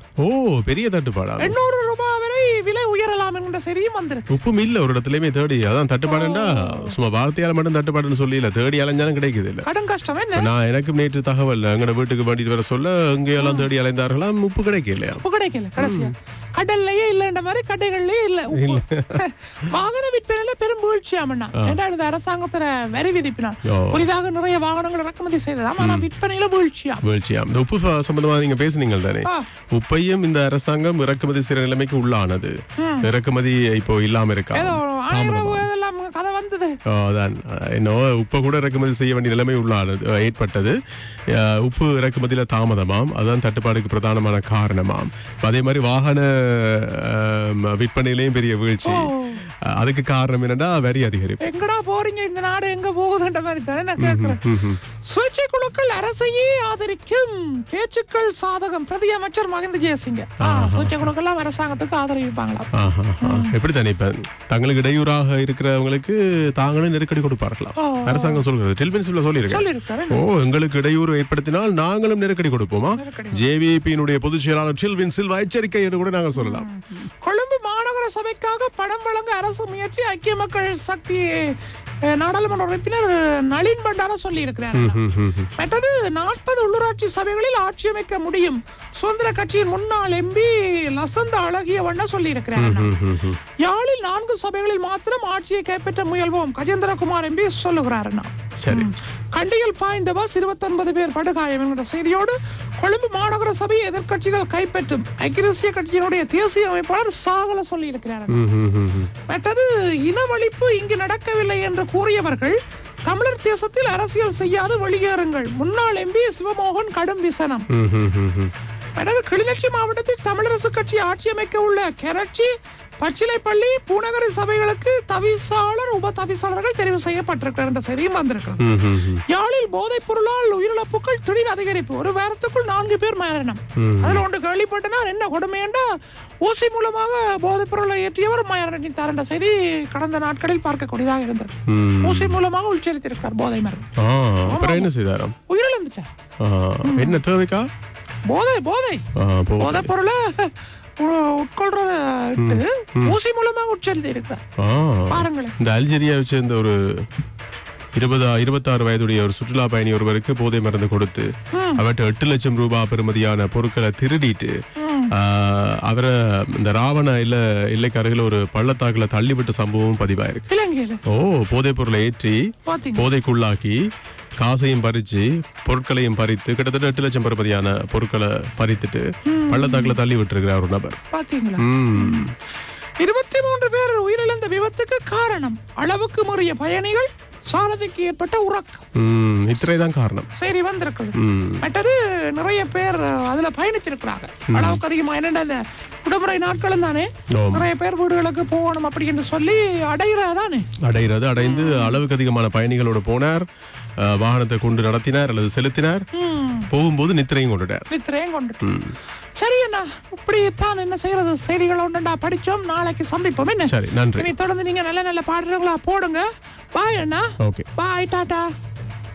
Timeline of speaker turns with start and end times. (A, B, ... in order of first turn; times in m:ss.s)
0:00.2-0:01.6 A
0:01.4-0:04.3 B
0:04.3-0:09.7 A
0:06.1-0:07.0 B
0:09.6-0:10.5 B
0:10.4-0:15.2 A
0:13.4-0:13.7 B
0:15.2-0:27.0 B
0:15.8-0:16.1 A
0:18.5-0:19.2 A
0:23.7-0:24.1 A
0:25.8-0:26.1 A
0:27.0-0:35.7 A
0:32.8-0:33.1 B
0:34.5-0:36.8 B
0:36.9-0:40.8 A
0:41.3-0:51.4 A
0:48.8-0:49.4 B
0:51.4-0:54.4 B
0:54.0-0:54.8 A
0:55.0-1:02.7 B
1:00.4-1:01.1 A
1:02.7-1:16.7 A
1:03.2-1:03.5 B
1:07.8-1:08.4 B
1:09.5-1:10.2 B
1:13.0-1:13.5 B
1:16.3-1:21.6 B
1:22.1-1:25.0 B
1:24.7-1:25.5 A
1:25.6-1:32.9 B
1:32.6-1:33.4 A
1:33.6-1:48.4 B
1:38.6-1:38.9 A
1:48.3-1:49.1 A
1:49.3-1:57.7 B
1:57.7-1:58.5 A
1:59.0-2:08.7 B
2:08.6-2:09.2 A
2:09.3-2:15.9 B
2:13.8-2:14.2 A
2:16.4-2:23.9 B
2:21.7-2:22.4 A
2:24.0-2:25.4 A
2:24.5-2:24.9 B
2:25.5-2:26.1 B
2:26.4-2:27.7 A
2:26.8-2:27.2 B
2:28.3-2:29.0 B
2:29.2-2:29.9 A
2:29.6-2:34.4 B
2:32.4-2:33.2 A
2:34.6-2:37.1 A
2:35.1-2:35.6 B
2:38.0-2:44.6 A
2:41.5-2:41.8 B
2:44.8-2:45.1 B
2:45.1-2:50.5 A
2:50.5-2:51.0 B
2:51.1-2:53.8 A
2:52.7-2:53.1 B
2:54.4-3:01.0 A
2:59.2-3:00.0 B
3:01.1-3:02.3 B
3:01.6-3:02.3 A
3:03.0-3:08.8 B
3:09.0-3:10.3 A
3:10.4-3:20.7 B
3:11.2-3:11.6 A
3:14.5-3:14.8 A
3:17.4-3:17.7 A
3:20.8-3:23.4 A
3:21.4-3:22.0 B
3:24.0-3:26.1 A
3:26.1-3:26.7 B
3:26.7-3:27.8 A
3:27.9-3:28.7 B
3:28.6-3:29.0 A
3:29.4-3:38.5 B
3:33.7-3:34.3 A
3:37.4-3:37.7 A